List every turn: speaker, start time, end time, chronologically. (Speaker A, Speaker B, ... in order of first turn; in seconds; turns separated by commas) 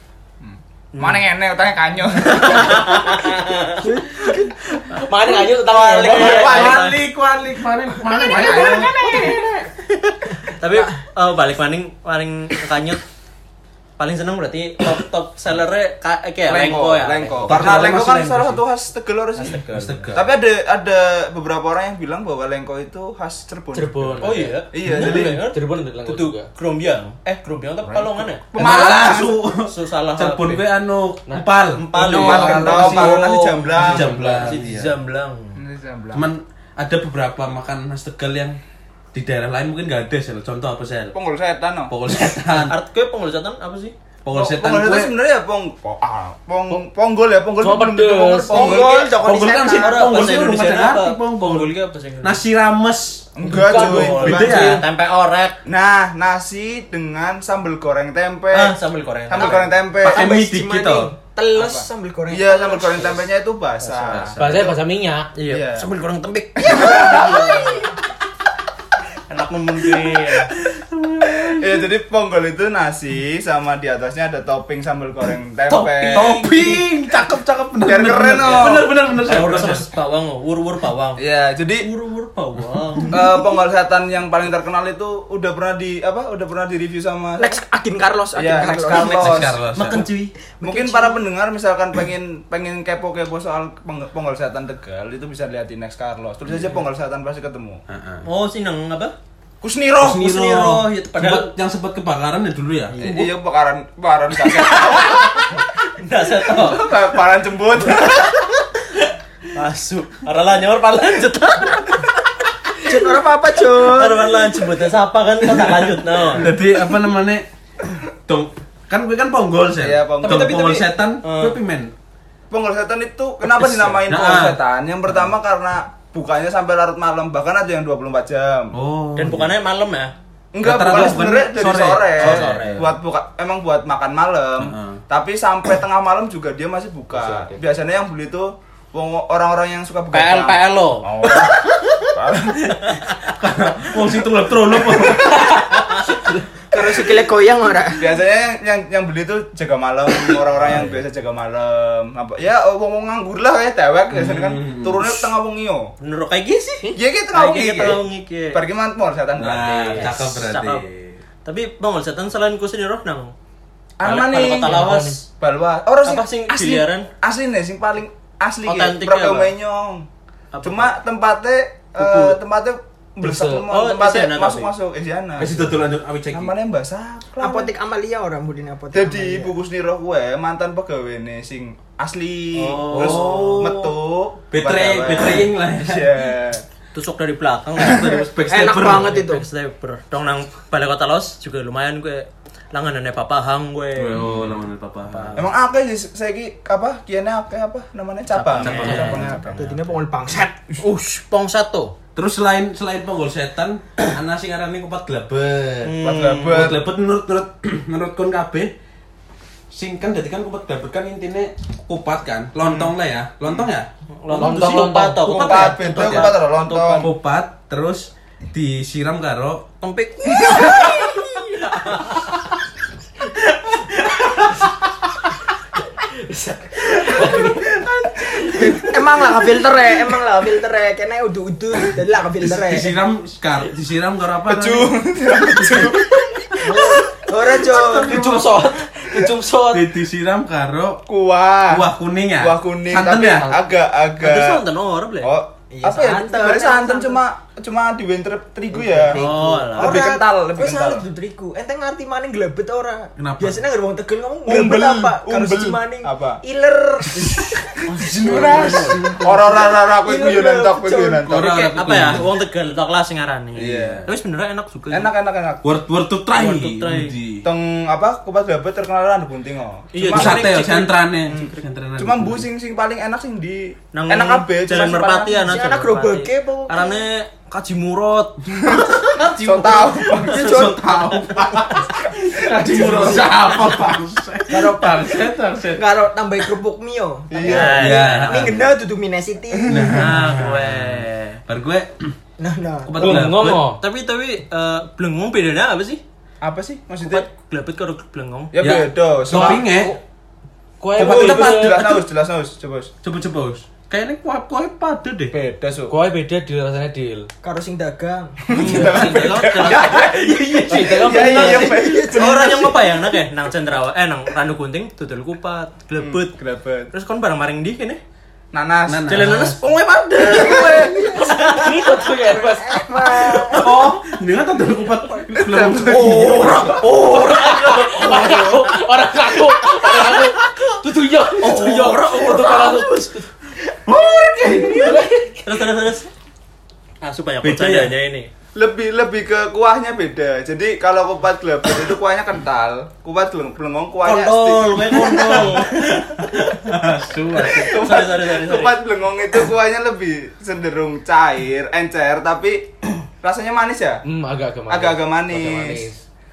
Speaker A: 0.4-3.1, Speaker B: 0.9-1.2, Speaker B: 2.2-3.8, Speaker C: 3.8-4.8, Speaker D: 5.0-6.8, Speaker B: 5.6-7.0, Speaker A: 5.9-6.8, Speaker E: 6.1-9.4, Speaker C: 8.2-9.7, Speaker A: 8.3-9.3, Speaker B: 9.8-13.0, Speaker C: 10.5-10.9, Speaker B: 14.0-18.1, Speaker A: 16.5-25.4, Speaker E: 17.4-18.6, Speaker B: 19.4-20.2, Speaker E: 19.6-20.3, Speaker D: 23.7-26.5, Speaker B: 24.2-29.1, Speaker A: 27.8-29.4, Speaker E: 28.5-33.1, Speaker B: 29.6-30.6, Speaker D: 31.3-32.8, Speaker B: 31.7-35.6, Speaker A: 32.1-34.5, Speaker E: 33.8-34.9, Speaker A: 35.5-36.3, Speaker E: 36.1-38.6, Speaker E: 39.1-41.1, Speaker A: 41.1-41.9, Speaker E: 41.9-42.7, Speaker B: 42.5-43.9, Speaker E: 44.2-45.1, Speaker A: 44.3-49.2, Speaker D: 47.6-48.7, Speaker C: 48.5-50.4, Speaker B: 48.5-52.4, Speaker E: 49.2-54.8, Speaker A: 53.3-54.8, Speaker D: 53.5-54.7, Speaker B: 53.5-55.6, Speaker A: 55.6-58.8, Speaker B: 58.5-59.7, Speaker A: 59.3-60.3, Speaker C: 59.4-63.2, Speaker E: 60.0-61.1, Speaker A: 61.5-64.7, Speaker B: 63.8-64.4, Speaker E: 64.1-64.7, Speaker D: 64.4-65.3, Speaker B: 65.3-67.9, Speaker A: 65.5-65.9, Speaker A: 66.8-67.6, Speaker C: 67.1-67.3, Speaker B: 69.3-70.5, Speaker E: 70.7-71.7, Speaker A: 71.6-76.5, Speaker B: 75.7-76.8, Speaker E: 76.1-79.9, Speaker A: 77.8-78.9, Speaker B: 78.4-81.2, Speaker A: 81.2-81.9, Speaker B: 81.8-83.4, Speaker A: 83.1-87.6, Speaker C: 87.4-89.4, Speaker A: 88.3-89.6, Speaker B: 88.9-90.3, Speaker E: 89.1-90.1, Speaker C: 90.6-91.3, Speaker A: 90.6-97.8, Speaker E: 97.9-98.2, Speaker B: 98.2-99.1, Speaker A: 99.6-100.2, Speaker E: 100.0-103.0, Speaker B: 100.0-101.5, Speaker A: 102.9-105.3, Speaker B: 103.0-103.2, Speaker B: 104.4-107.0, Speaker A: 106.5-108.4, Speaker B: 107.9-112.1, Speaker C: 112.8-114.5, Speaker B: 113.7-116.5, Speaker E: 116.3-117.5, Speaker E: 118.3-121.9, Speaker A: 119.8-120.7, Speaker B: 120.2-121.6, Speaker A: 122.5-128.7, Speaker E: 123.5-124.6, Speaker E: 128.7-129.5, Speaker B: 129.2-130.1, Speaker A: 130.5-142.8, Speaker E: 130.6-132.8, Speaker B: 132.2-132.9, Speaker E: 134.6-135.0, Speaker D: 137.1-137.6, Speaker B: 140.1-141.6, Speaker B: 142.7-143.1, Speaker E: 143.3-145.7, Speaker C: 146.7-148.2, Speaker A: 148.0-155.9, Speaker E: 150.5-151.0, Speaker E: 154.1-155.3, Speaker B: 156.0-158.6, Speaker A: 156.9-160.3, Speaker E: 159.4-161.1, Speaker B: 159.9-160.9, Speaker B: 161.4-163.3, Speaker A: 164.0-170.1, Speaker B: 164.0-165.3, Speaker D: 164.6-165.2, Speaker B: 166.0-167.1, Speaker B: 168.7-169.5, Speaker B: 170.5-170.9, Speaker A: 170.6-175.8, Speaker B: 171.9-172.4, Speaker D: 173.2-173.7, Speaker B: 173.7-174.7, Speaker E: 175.4-176.5, Speaker A: 176.3-177.7, Speaker C: 177.4-179.5, Speaker A: 178.9-186.6, Speaker B: 182.5-183.7, Speaker E: 182.8-183.9, Speaker E: 184.5-186.1, Speaker B: 186.9-188.2, Speaker E: 187.8-189.2, Speaker C: 188.5-189.4, Speaker B: 188.8-194.3, Speaker E: 193.9-195.4, Speaker B: 195.1-195.4, Speaker A: 195.3-199.6, Speaker B: 198.3-199.6, Speaker E: 198.6-199.4, Speaker C: 199.5-200.7, Speaker B: 200.8-201.9, Speaker E: 202.2-205.9, Speaker B: 205.8-206.7, Speaker A: 206.0-206.8, Speaker E: 206.5-208.7, Speaker E: 209.7-214.9, Speaker B: 214.2-217.1, Speaker D: 214.4-215.7, Speaker A: 215.3-217.1, Speaker E: 215.9-216.3, Speaker E: 216.9-219.7, Speaker B: 219.8-222.2, Speaker A: 220.4-220.9, Speaker E: 224.1-224.6, Speaker D: 226.2-227.7, Speaker C: 228.4-232.9, Speaker E: 232.4-235.9, Speaker A: 234.4-236.7, Speaker C: 236.5-238.4, Speaker E: 237.7-238.5, Speaker D: 237.7-239.8, Speaker E: 239.7-241.0, Speaker A: 241.1-241.8, Speaker E: 241.7-243.6, Speaker A: 242.4-244.6, Speaker B: 244.2-245.3, Speaker A: 245.2-251.1, Speaker C: 245.7-247.2, Speaker C: 248.7-261.3, Speaker B: 249.1-250.0, Speaker E: 253.2-253.6, Speaker A: 254.4-256.4, Speaker B: 257.9-259.0, Speaker A: 258.0-261.6, Speaker E: 258.2-259.0, Speaker E: 261.2-262.2, Speaker B: 261.4-265.1, Speaker E: 263.6-264.1, Speaker A: 263.6-264.1, Speaker A: 264.9-265.6, Speaker E: 265.6-267.4, Speaker B: 266.3-267.1, Speaker A: 267.4-270.5, Speaker B: 269.9-270.9, Speaker E: 270.1-272.4, Speaker A: 271.3-275.6, Speaker B: 273.9-281.8, Speaker C: 275.4-277.0, Speaker A: 278.7-280.4, Speaker C: 280.3-280.8, Speaker E: 280.3-285.8, Speaker C: 282.6-283.4, Speaker C: 284.5-290.0, Speaker A: 287.3-287.9, Speaker B: 287.4-288.6, Speaker E: 287.7-288.6, Speaker E: 289.7-292.1, Speaker B: 289.9-291.4, Speaker C: 292.4-293.3, Speaker E: 292.8-293.6, Speaker D: 293.0-293.8, Speaker B: 293.8-296.0, Speaker A: 296.4-297.2, Speaker B: 297.0-298.5, Speaker A: 298.5-299.6, Speaker E: 298.6-299.9, Speaker D: 299.3-300.0, Speaker D: 300.8-301.8, Speaker A: 300.9-302.9, Speaker E: 301.0-302.0, Speaker E: 303.0-305.3, Speaker A: 305.3-305.9, Speaker D: 305.9-307.3, Speaker C: 307.4-308.4, Speaker A: 308.4-312.8, Speaker D: 308.5-310.0, Speaker B: 308.6-310.6, Speaker E: 309.9-310.8, Speaker D: 310.7-311.8, Speaker C: 311.1-312.8, Speaker B: 312.1-316.3, Speaker A: 316.0-316.9, Speaker B: 316.9-318.0, Speaker A: 318.5-319.3, Speaker E: 318.9-319.6, Speaker B: 319.1-321.8, Speaker A: 320.2-321.1, Speaker C: 320.3-323.7, Speaker D: 321.3-323.4, Speaker E: 323.5-327.1, Speaker A: 325.3-326.8, Speaker D: 326.0-333.2, Speaker B: 326.8-328.7, Speaker B: 329.6-330.4, Speaker B: 331.4-333.2, Speaker E: 333.9-335.0, Speaker D: 334.4-335.7, Speaker B: 335.4-336.1, Speaker B: 337.0-338.3, Speaker E: 337.4-337.9, Speaker A: 338.5-345.6, Speaker E: 344.0-348.0, Speaker B: 344.5-346.7, Speaker B: 347.3-348.8, Speaker A: 347.5-352.7, Speaker A: 353.2-354.0, Speaker D: 354.0-356.0, Speaker A: 354.7-355.9